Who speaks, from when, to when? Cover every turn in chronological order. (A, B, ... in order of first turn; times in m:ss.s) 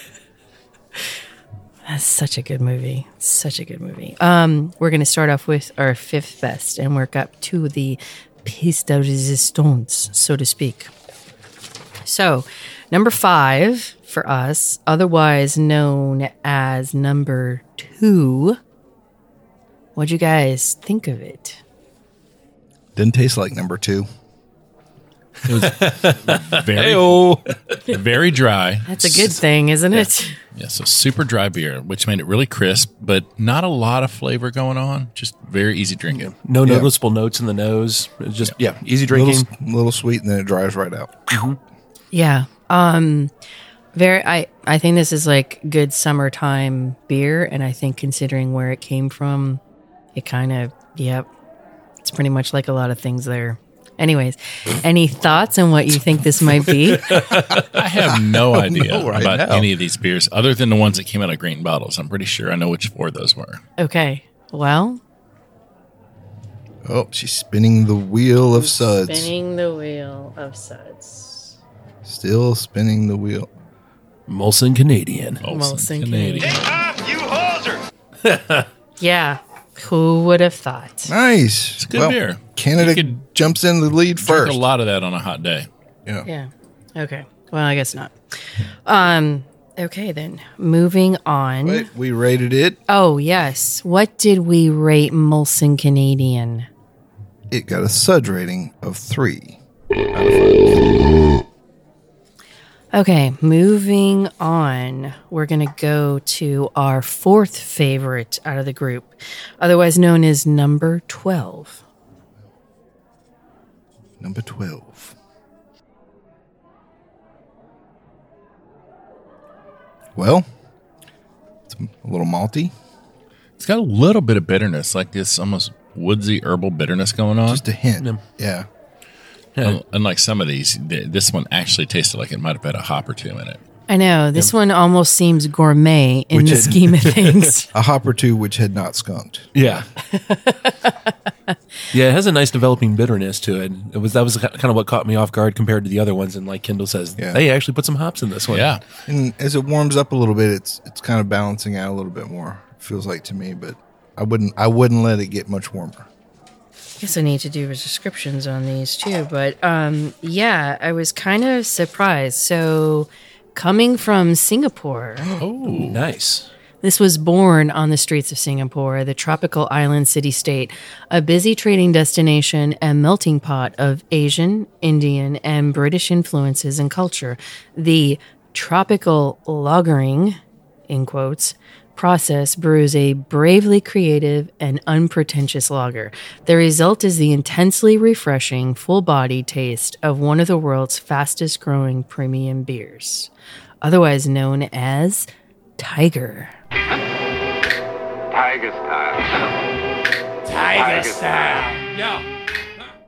0:01.8-0:10.9 A
0:12.0-0:18.6 A
0:20.0-0:21.6 A
0:23.0-0:24.1 B
0:25.4-0:27.7 C
0:25.4-0:29.3 D
0:28.9-0:30.3 A
0:30.5-0:36.3 D
0:36.1-0:39.5 C
0:36.6-0:36.9 B
0:39.1-0:41.4 B
0:41.3-0:41.6 C
0:42.1-0:43.3 A
0:43.9-0:49.6 A
0:50.1-0:51.3 A
0:52.0-0:57.2 A
0:56.8-0:57.8 C
0:57.6-1:03.6 D
0:58.4-0:59.7 B
1:03.8-1:05.0 A
1:06.8-1:09.3 B
1:08.5-1:11.5 A
1:12.0-1:13.5 B
1:14.3-1:15.4 C
1:15.4-1:16.7 D
1:15.5-1:16.5 A
1:16.4-1:17.8 E
1:18.2-1:18.7 C
1:19.0-1:21.1 A
1:21.1-1:24.6 B
1:21.8-1:23.2 D
1:24.2-1:25.7 D
1:26.2-1:28.1 A
1:28.8-1:31.9 A
1:31.6-1:32.8 B
1:32.9-1:36.7 A
1:37.5-1:39.6 B
1:40.1-1:40.9 B
1:42.9-1:51.8 A
1:54.2-1:55.2 B
2:00.2-2:00.5 B
2:01.7-2:02.7 B
2:03.6-2:07.6 D
2:07.4-2:08.7 B
2:09.6-2:13.6 D
2:13.9-2:17.7 A
2:16.3-2:17.1 B
2:17.7-2:19.8 B
2:19.5-2:19.9 C
2:20.1-2:20.9 A
2:21.9-2:28.8 C
2:28.5-2:28.8 D
2:29.1-2:36.1 B
2:37.0-2:45.3 A
2:45.4-2:46.0 D
2:45.6-2:46.5 C
2:46.8-3:00.4 A
3:00.9-3:13.3 A
3:13.8-3:16.5 A
3:18.3-3:19.4 E
3:20.4-3:22.2 E